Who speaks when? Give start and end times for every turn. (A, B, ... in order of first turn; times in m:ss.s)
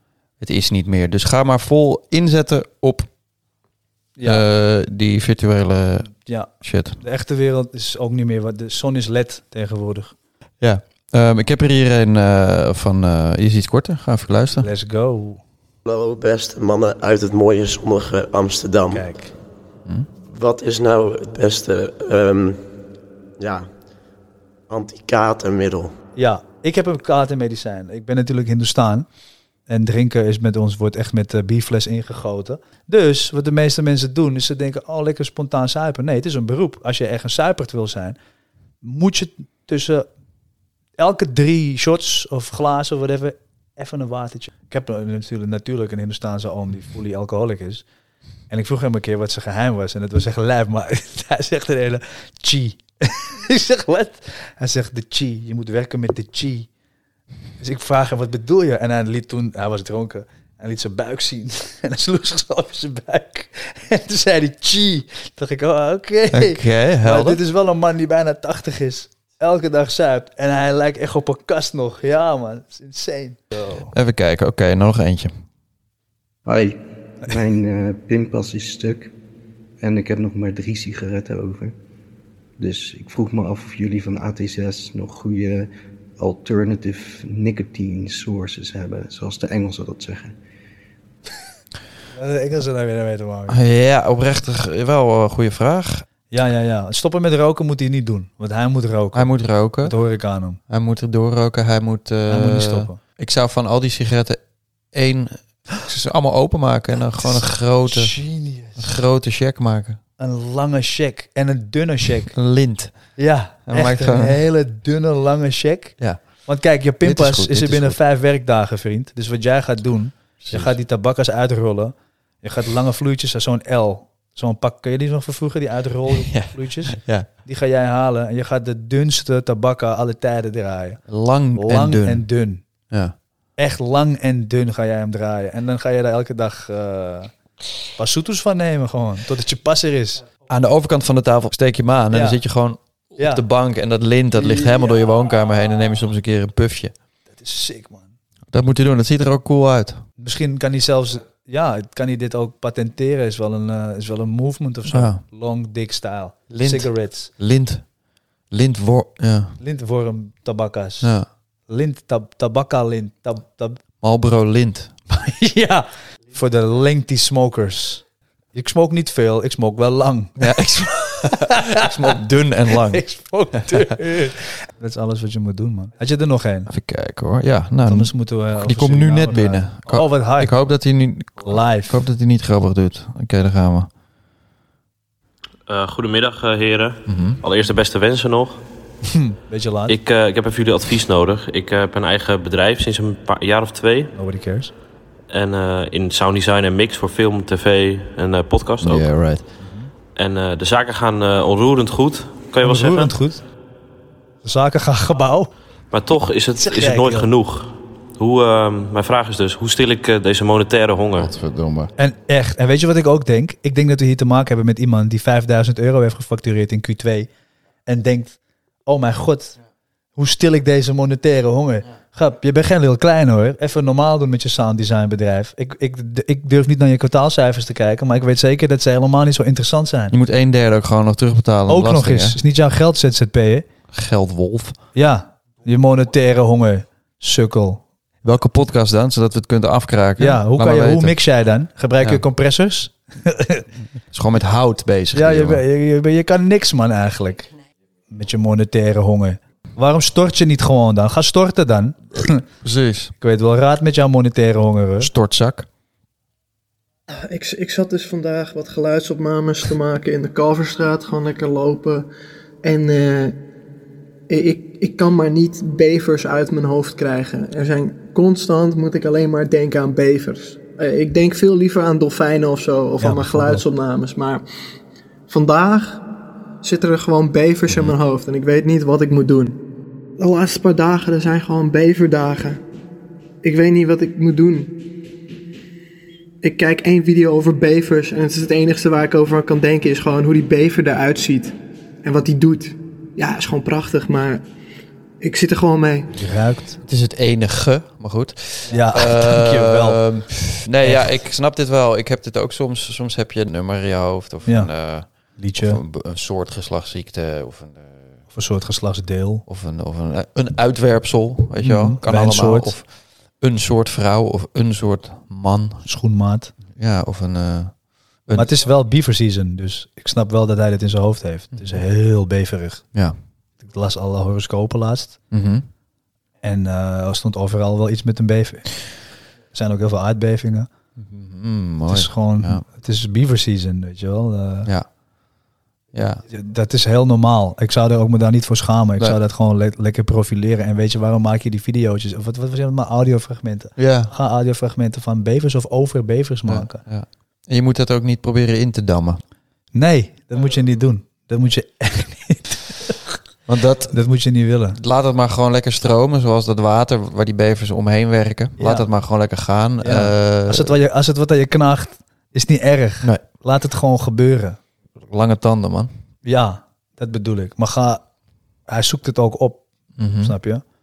0:00.4-0:03.1 A
0:04.2-0:04.4 B
0:04.2-0:07.0 A
0:06.2-0:10.2 B
0:10.6-0:14.7 A
0:14.6-0:15.4 B
0:15.8-0:19.2 C
0:18.9-0:19.3 B
0:20.2-0:22.6 C
0:23.4-0:23.7 C
0:24.7-0:26.0 C
0:26.2-0:29.1 B
0:29.7-0:38.2 B
0:38.8-0:40.1 B
0:41.0-0:47.8 B
0:48.5-0:56.7 B
0:57.6-1:13.9 B
1:06.3-1:07.4 A
1:13.9-1:15.3 A
1:16.5-1:19.1 D
1:19.8-1:21.8 D
1:22.6-1:25.7 D
1:26.2-1:30.4 D
1:32.1-1:33.6 B
1:33.5-1:36.0 A
1:36.3-1:39.3 B
1:39.1-1:40.0 A
1:39.8-1:40.6 B
1:40.7-1:44.4 A
1:42.3-1:43.0 B
1:44.9-1:48.2 A
1:47.2-1:49.0 B
1:48.8-1:50.0 A
1:50.2-1:52.3 B
1:52.3-1:54.4 A
1:53.2-2:11.0 B
1:57.0-1:58.0 A
2:00.4-2:00.8 A
2:06.2-2:07.3 A
2:11.1-2:12.3 A
2:11.5-2:12.6 B
2:13.6-2:17.3 B
2:18.0-2:20.3 B
2:20.5-2:26.9 A
2:22.1-2:22.4 B
2:23.2-2:23.4 B
2:27.3-2:28.1 B
2:28.5-2:30.0 A
2:30.2-2:37.3 B
2:34.9-2:35.2 A
2:36.5-2:37.8 A
2:38.5-2:39.5 A
2:39.6-2:41.1 B
2:41.0-2:41.3 A
2:41.7-2:43.8 B
2:44.0-2:44.9 A
2:45.1-2:50.4 B
2:50.4-2:53.1 A
2:51.7-2:52.2 B
2:52.8-2:56.7 B
2:56.7-3:03.9 A
2:57.9-3:00.5 B
3:01.4-3:02.0 B
3:05.7-3:08.6 E
3:07.1-3:07.4 A
3:09.1-3:10.0 B
3:09.9-3:14.1 E
3:14.1-3:14.7 B
3:15.3-3:19.1 E
3:18.8-3:19.4 A
3:19.6-3:19.9 B
3:20.2-3:23.2 E
3:22.6-3:23.4 B
3:24.4-3:25.5 B
3:25.9-3:31.3 E
3:26.5-3:27.3 B
3:31.2-3:31.9 A
3:32.0-3:37.3 B
3:37.9-3:39.6 B
3:40.2-3:50.2 B
3:50.1-3:52.4 A
3:51.7-3:53.7 B
3:53.9-3:54.8 A
3:54.9-3:57.8 B
3:58.2-4:01.2 A
4:00.2-4:03.6 B
4:04.1-4:05.6 A
4:05.1-4:07.5 B
4:08.1-4:12.5 B
4:12.6-4:13.1 A
4:13.2-4:15.1 B
4:15.0-4:15.7 A
4:17.3-4:22.1 F
4:22.6-4:23.4 F
4:24.3-4:34.4 F
4:33.0-4:33.6 B
4:35.3-4:36.0 F
4:36.6-4:39.6 F
4:40.2-4:42.6 F
4:43.4-4:44.7 F
4:46.4-4:54.4 F
4:55.2-4:56.0 F
4:56.1-4:56.8 B
4:56.8-5:08.1 A
4:58.7-5:01.1 B
5:04.4-5:05.8 B
5:08.3-5:09.4 B
5:09.5-5:15.8 A
5:11.6-5:12.8 B
5:15.8-5:16.5 B
5:16.8-5:18.5 A
5:18.3-5:22.8 B
5:23.6-5:25.2 B
5:25.3-5:25.7 A
5:26.4-5:28.9 B
5:29.5-5:30.7 B
5:31.0-5:32.6 A
5:31.9-5:34.7 B
5:35.9-5:36.2 A
5:36.3-5:46.8 B
5:43.8-5:44.1 A
5:46.5-5:49.2 A
5:49.7-5:53.2 B
5:53.5-5:53.9 A
5:53.7-5:54.8 B
5:54.8-6:00.7 A
5:58.6-5:58.9 B
5:59.8-6:04.6 B
6:05.1-6:05.9 A
6:06.2-6:08.0 B
6:08.7-6:10.6 B
6:10.0-6:10.4 A